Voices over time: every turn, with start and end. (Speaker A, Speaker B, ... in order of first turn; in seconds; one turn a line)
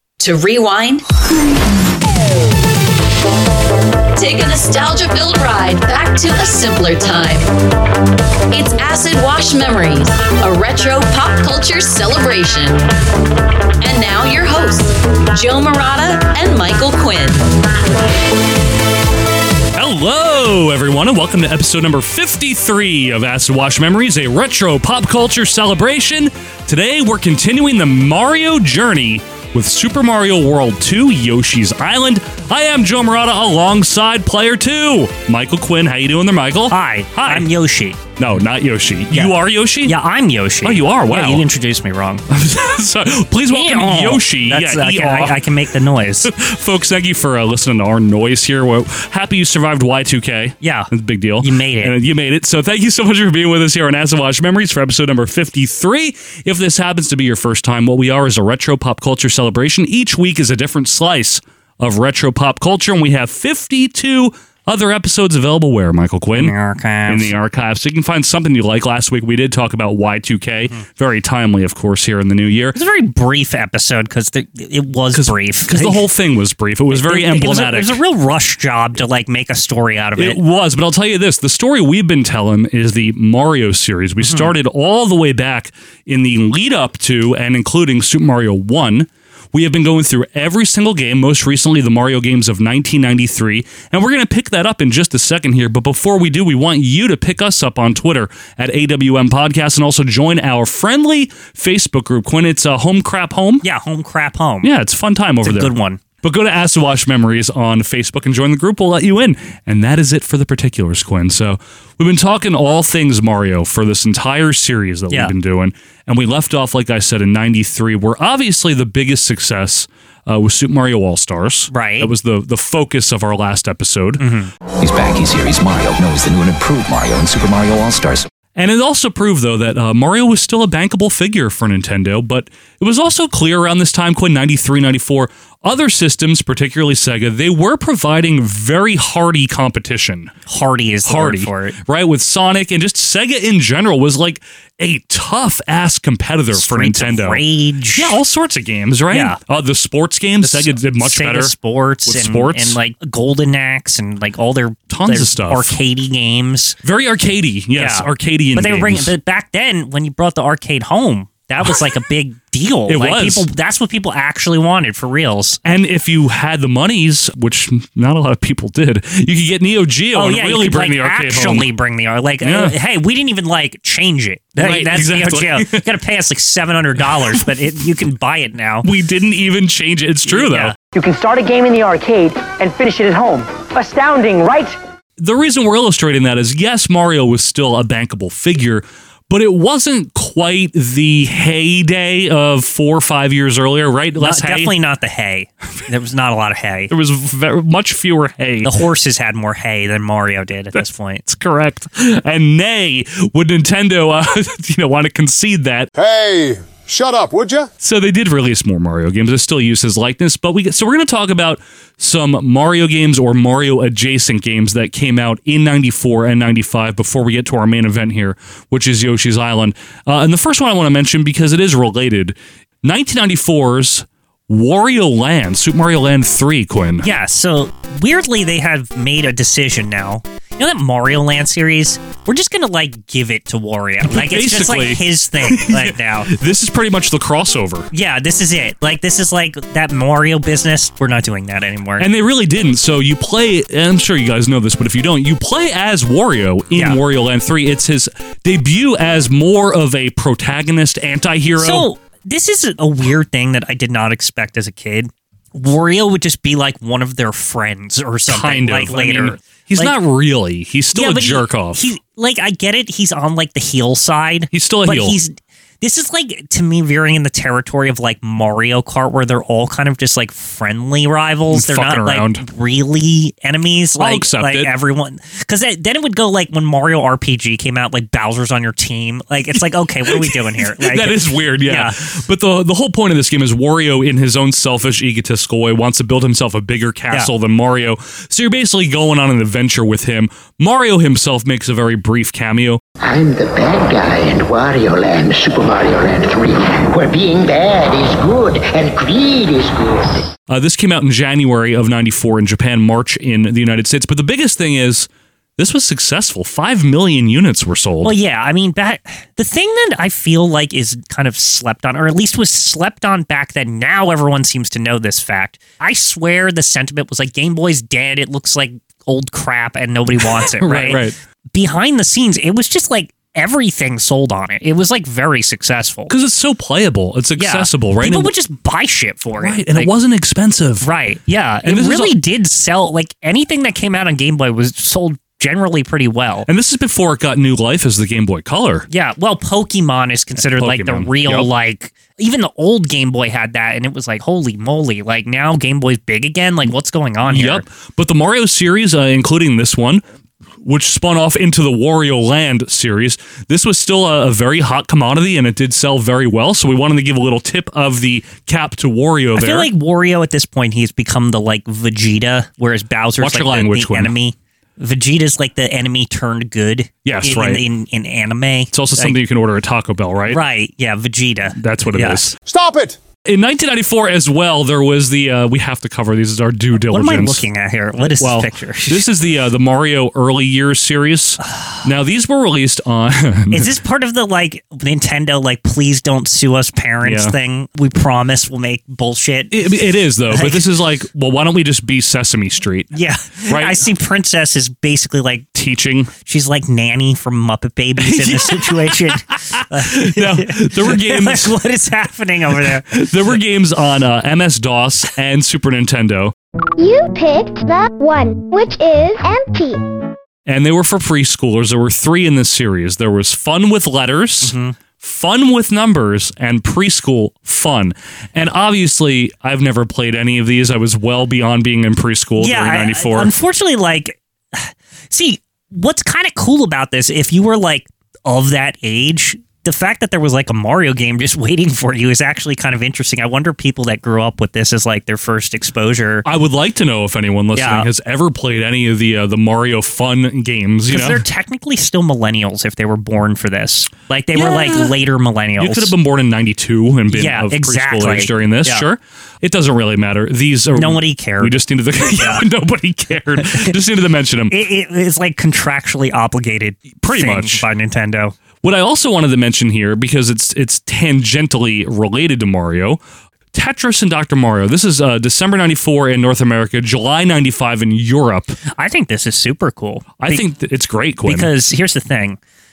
Speaker A: 0.2-1.6
Speaker A: 4.2-7.5
Speaker A: 8.5-12.8
Speaker A: 13.8-17.6
Speaker B: 19.8-37.5
Speaker C: 36.7-38.0
Speaker B: 38.2-40.0
Speaker C: 39.1-42.2
Speaker B: 40.6-41.5
Speaker B: 42.3-45.5
Speaker C: 43.5-46.3
Speaker B: 46.2-66.5
Speaker C: 50.6-50.9
Speaker C: 51.4-52.0
Speaker C: 66.3-67.3
Speaker B: 67.1-72.8
Speaker C: 72.7-76.0
Speaker B: 75.1-78.0
Speaker C: 76.9-80.4
Speaker B: 80.2-103.6
Speaker C: 84.2-84.5
Speaker C: 103.6-104.7
Speaker B: 104.6-124.2
Speaker C: 105.4-106.0
Speaker C: 121.7-122.1
Speaker C: 124.2-124.5
Speaker D: 124.8-128.3
Speaker B: 128.6-140.3
Speaker C: 140.5-141.8
Speaker B: 141.1-151.5
Speaker C: 146.5-148.2
Speaker C: 149.1-149.4
Speaker C: 150.4-156.8
Speaker B: 152.1-152.8
Speaker B: 154.9-155.8
Speaker B: 156.8-159.1
Speaker C: 157.8-165.6
Speaker B: 162.9-163.5
Speaker B: 165.7-171.7
Speaker C: 170.2-178.9
Speaker B: 172.4-172.7
Speaker B: 174.6-175.9
Speaker B: 178.8-180.7
Speaker C: 180.3-180.7
Speaker E: 180.9-184.8
Speaker B: 185.2-194.7
Speaker C: 194.2-196.9
Speaker B: 196.9-198.7
Speaker C: 198.6-201.2
Speaker B: 200.8-205.9
Speaker F: 205.9-207.7
Speaker B: 207.8-227.1
Speaker C: 227.0-236.3
Speaker B: 234.1-237.9
Speaker C: 237.9-242.1
Speaker B: 242.0-251.9
Speaker C: 246.7-247.0
Speaker C: 251.6-259.9
Speaker B: 258.3-261.9
Speaker C: 260.9-282.0
Speaker B: 264.5-265.2
Speaker B: 271.5-272.4
Speaker B: 274.0-274.7
Speaker B: 280.1-292.8
Speaker G: 293.0-300.3
Speaker B: 300.5-308.1
Speaker C: 308.0-326.1
Speaker B: 320.4-321.2
Speaker B: 326.1-328.3
Speaker C: 327.4-329.9
Speaker B: 329.4-330.9
Speaker C: 330.8-336.5
Speaker B: 331.6-332.2
Speaker B: 336.5-338.9
Speaker C: 338.9-347.6
Speaker B: 340.4-341.5
Speaker B: 347.2-350.0
Speaker B: 350.6-359.7
Speaker C: 359.3-369.2
Speaker B: 363.2-364.1
Speaker B: 367.1-367.6
Speaker B: 368.7-370.4
Speaker C: 370.3-372.2
Speaker B: 371.6-372.3
Speaker F: 372.5-373.0
Speaker B: 373.3-377.4
Speaker C: 376.8-379.0
Speaker B: 378.1-383.7
Speaker C: 383.5-389.6
Speaker B: 387.0-387.3
Speaker B: 389.5-392.9
Speaker C: 390.3-390.6
Speaker C: 392.9-395.5
Speaker B: 393.5-393.9
Speaker B: 395.6-396.1
Speaker C: 396.2-403.0
Speaker B: 398.0-401.6
Speaker B: 402.6-406.3
Speaker H: 406.8-409.8
Speaker B: 410.5-423.3
Speaker C: 414.4-414.8
Speaker C: 422.4-436.3
Speaker B: 436.2-441.2
Speaker C: 437.6-437.9
Speaker C: 440.9-445.9
Speaker B: 444.4-445.0
Speaker B: 445.6-454.5
Speaker C: 447.1-448.9
Speaker C: 450.8-451.6
Speaker C: 452.2-452.4
Speaker C: 453.4-453.8
Speaker C: 454.5-458.4
Speaker B: 457.0-457.6
Speaker B: 458.6-463.0
Speaker B: 463.5-468.6
Speaker C: 468.8-470.4
Speaker B: 470.2-471.5
Speaker C: 471.2-472.4